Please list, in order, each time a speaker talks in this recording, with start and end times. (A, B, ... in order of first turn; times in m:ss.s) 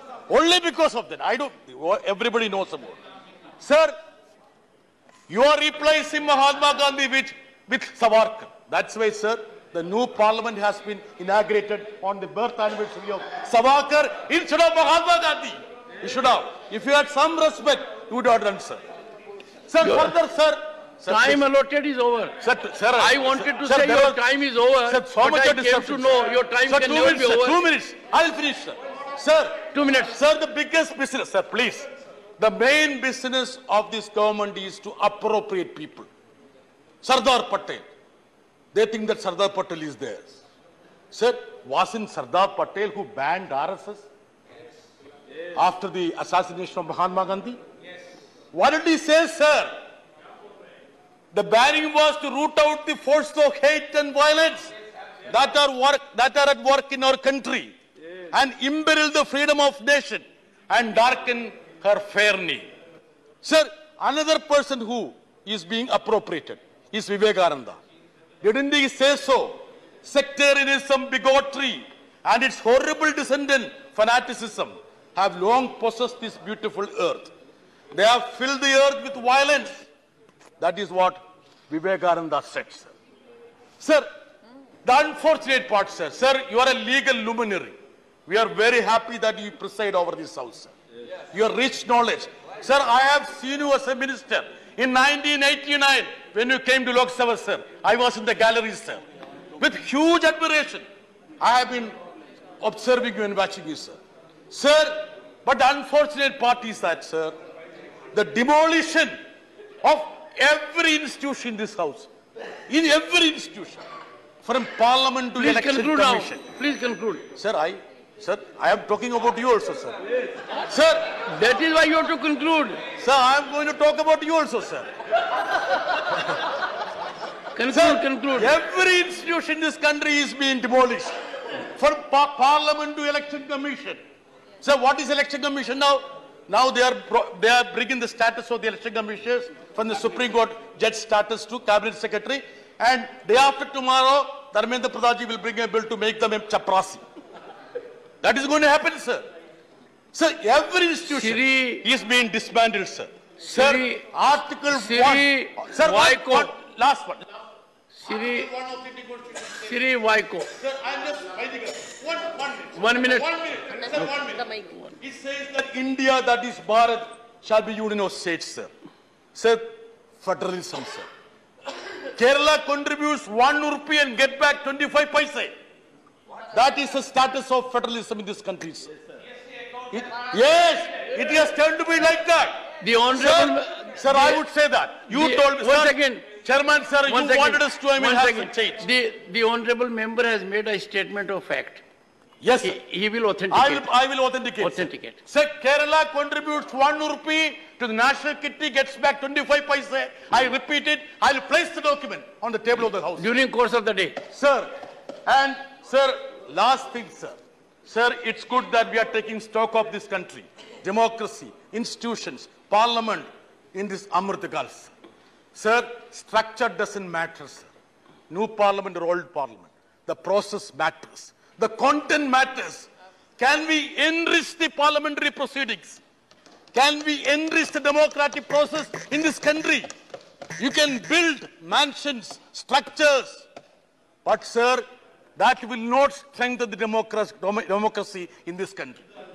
0:00.3-0:03.0 A
0:03.6-0:03.9 A
0:05.3-0:18.8 A
0:19.7-0:21.4 A
0:19.8-0:20.1 B
0:21.1-0:22.4 B
0:22.4-0:24.2 A
0:23.0-0:27.6 B
0:24.8-0:36.1 A
0:29.7-0:30.1 B
0:37.0-0:37.8 A
0:38.7-0:40.4 A
0:41.1-0:44.1 A
0:45.5-0:47.6 A
0:48.5-0:49.8 A
0:51.3-0:54.7 A
0:55.3-0:57.7 A
0:58.3-1:02.7 A
1:03.4-1:07.8 A
1:08.4-1:17.3 A
1:17.9-1:19.9 A
1:20.6-1:22.9 A
1:23.8-1:24.1 A
1:24.8-1:30.7 A
1:31.3-1:39.0 A
1:39.6-1:40.8 A
1:41.4-1:42.0 A
1:42.6-1:44.0 A
1:44.5-1:47.3 A
1:48.1-1:49.2 A
1:49.8-1:52.1 A
1:52.7-1:53.8 A
1:54.4-1:56.5 A
1:55.4-1:57.2 B
1:57.3-2:00.0 A
2:00.6-2:01.2 A
2:01.3-2:02.8 B
2:03.0-2:04.9 A
2:05.9-2:06.2 A
2:07.5-2:08.5 B
2:07.7-2:14.0 A
2:14.6-2:27.0 A
2:28.2-2:29.3 A
2:30.1-2:37.2 A
2:31.1-2:31.8 B
2:33.4-2:34.1 B
2:34.7-2:36.5 B
2:37.9-2:38.5 B
2:38.1-2:39.8 A
2:39.6-2:40.5 B
2:40.5-2:48.7 A
2:42.7-2:43.4 B
2:44.0-2:44.9 B
2:49.3-2:51.1 A
2:52.1-2:55.5 A
2:56.5-2:58.9 A
2:59.9-3:08.8 A
3:02.8-3:04.4 B
3:05.1-3:06.2 B
3:07.1-3:11.8 B
3:12.4-3:12.8 A
3:12.6-3:13.9 B
3:13.5-3:23.3 A
3:14.6-3:15.2 B
3:23.1-3:24.2 B
3:24.3-3:24.7 A
3:25.2-3:34.9 A
3:35.5-3:37.7 A
3:38.3-3:46.0 A
3:46.7-3:49.9 A
3:50.6-3:53.4 A
3:54.2-3:54.8 A
3:55.4-3:59.0 A